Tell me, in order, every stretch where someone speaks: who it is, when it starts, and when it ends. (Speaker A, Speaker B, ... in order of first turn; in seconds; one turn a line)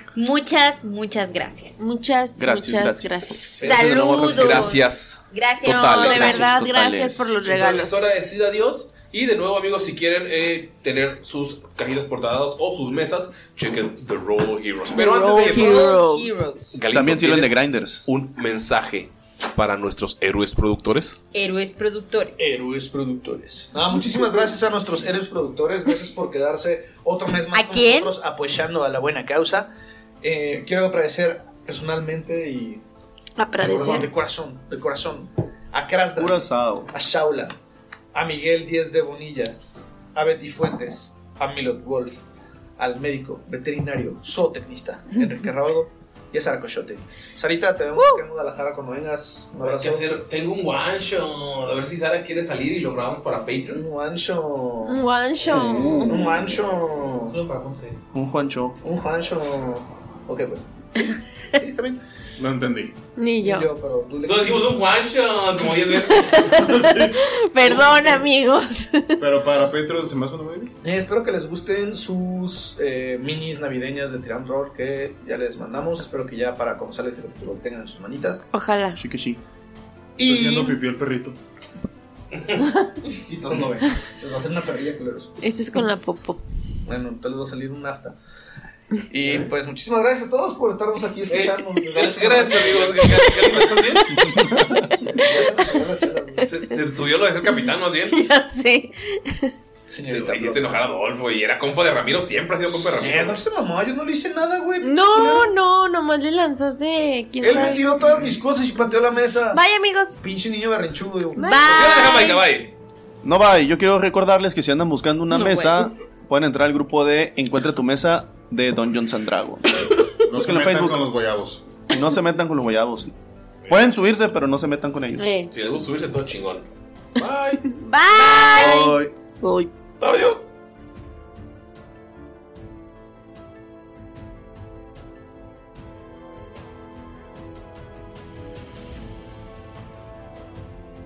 Speaker A: 0.1-1.8
Speaker B: 1.8-3.6
Speaker C: 2.4-4.8
Speaker A: 3.6-6.5
Speaker D: 3.6-4.1
Speaker E: 4.1-6.5
Speaker B: 5.6-8.0
Speaker C: 5.9-7.4
Speaker E: 7.5-15.9
Speaker B: 14.9-16.5
Speaker A: 15.3-16.8
Speaker E: 16.7-21.2
Speaker C: 16.9-18.0
Speaker A: 21.3-22.3
Speaker D: 22.4-29.7
Speaker A: 27.5-28.0
Speaker D: 30.2-32.8
Speaker B: 33.4-34.1
Speaker D: 33.6-37.5
Speaker C: 36.2-36.9
Speaker D: 38.1-39.6
Speaker D: 40.1-42.2
Speaker D: 42.8-50.2
Speaker E: 49.6-53.8
Speaker D: 53.7-57.4
Speaker B: 54.9-56.2
Speaker C: 55.8-56.0
Speaker E: 57.2-58.0
Speaker C: 58.1-58.8
Speaker D: 58.8-60.7
Speaker D: 61.4-62.0
Speaker F: 62.4-62.9
Speaker B: 63.2-63.7
Speaker D: 63.4-64.8
Speaker E: 64.2-66.5
Speaker B: 66.1-69.2
Speaker F: 66.6-67.2
Speaker D: 67.7-68.2
Speaker F: 69.2-70.7
Speaker D: 70.8-78.4
Speaker B: 78.5-79.0
Speaker C: 79.0-79.4
Speaker D: 80.2-80.8
Speaker F: 80.2-81.4
Speaker D: 83.2-85.3
Speaker B: 85.4-86.4
Speaker D: 86.8-88.2
Speaker D: 89.1-93.0
Speaker E: 91.3-94.2
Speaker B: 93.1-93.4
Speaker D: 95.0-96.5
Speaker E: 96.5-98.2
Speaker B: 97.5-99.5
Speaker D: 99.9-100.8
Speaker E: 100.1-103.4
Speaker D: 102.7-105.5
Speaker B: 104.8-107.9
Speaker D: 107.4-109.6
Speaker B: 109.5-110.2
Speaker D: 110.2-111.6
Speaker B: 111.3-112.2
Speaker A: 111.4-112.4
Speaker E: 111.7-112.7
Speaker C: 113.2-121.0
Speaker B: 115.3-115.9
Speaker F: 120.3-121.6
Speaker C: 121.9-123.1
Speaker C: 123.7-125.3
Speaker B: 125.2-125.5
Speaker E: 125.5-127.7
Speaker B: 127.7-129.7
Speaker C: 128.5-129.1
Speaker D: 130.0-130.4